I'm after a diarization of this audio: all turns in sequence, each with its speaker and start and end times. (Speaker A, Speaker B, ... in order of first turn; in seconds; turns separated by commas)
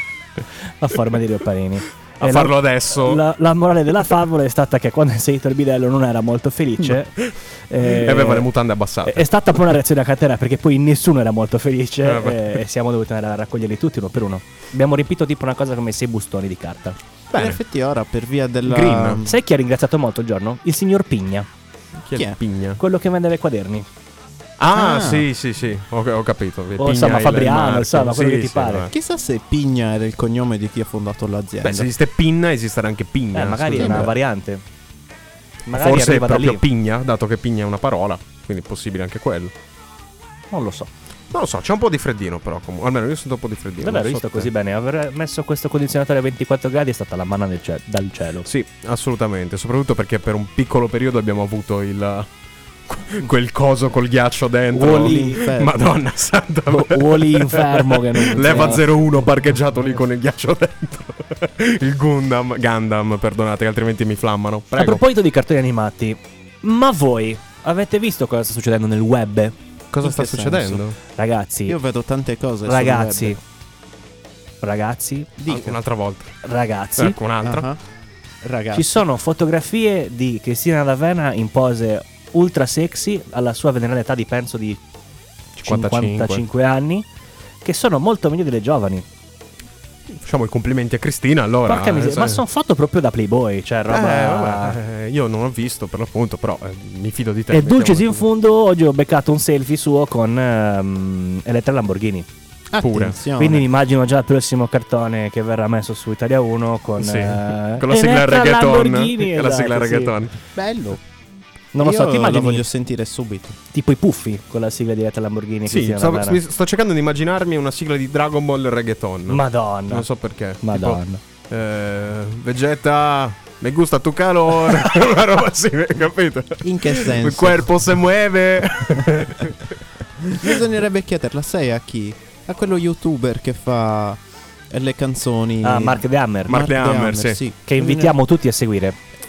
Speaker A: 0.8-8.5, Speaker B: 2.2-3.2, Speaker B: 7.2-9.3, Speaker A: 9.1-17.0, Speaker B: 12.0-12.6, Speaker B: 17.3-17.6, Speaker C: 17.3-19.4, Speaker B: 18.7-19.2, Speaker A: 19.2-21.5, Speaker B: 22.0-22.8, Speaker A: 22.8-23.9, Speaker B: 24.6-28.9, Speaker C: 24.7-25.3, Speaker A: 26.8-28.9, Speaker C: 28.9-31.9, Speaker B: 31.6-34.1, Speaker A: 33.3-34.6, Speaker C: 33.8-34.1, Speaker A: 35.7-36.6, Speaker B: 35.7-39.5, Speaker A: 40.5-40.9, Speaker B: 41.3-44.5, Speaker A: 43.8-48.5, Speaker B: 48.5-52.3, Speaker B: 52.9-65.0, Speaker A: 54.7-55.5, Speaker C: 54.8-55.8, Speaker A: 56.7-58.9, Speaker A: 64.8-69.5, Speaker B: 69.9-71.0, Speaker C: 70.0-70.8, Speaker A: 71.2-71.8, Speaker C: 71.7-73.4, Speaker A: 72.7-73.4, Speaker A: 74.6-75.3, Speaker C: 75.4-75.8, Speaker B: 75.5-76.3, Speaker A: 76.4-77.2, Speaker B: 77.0-77.7, Speaker C: 77.4-77.8, Speaker C: 78.4-78.9, Speaker A: 78.7-84.8, Speaker B: 85.6-86.4, Speaker A: 85.6-87.1, Speaker A: 87.6-89.1, Speaker B: 90.2-92.4, Speaker A: 91.7-94.8, Speaker B: 93.9-98.2, Speaker A: 97.5-102.3, Speaker C: 102.7-103.7, Speaker B: 102.8-103.2, Speaker A: 103.4-110.1, Speaker B: 107.0-110.3, Speaker C: 110.6-111.0, Speaker A: 111.7-112.7, Speaker C: 111.8-113.6, Speaker A: 113.7-116.4, Speaker B: 115.7-129.7, Speaker A: 119.3-120.1, Speaker A: 120.6-121.2, Speaker C: 126.6-127.7, Speaker C: 130.3-138.2, Speaker A: 135.6-136.6, Speaker B: 136.5-137.4, Speaker A: 137.7-139.0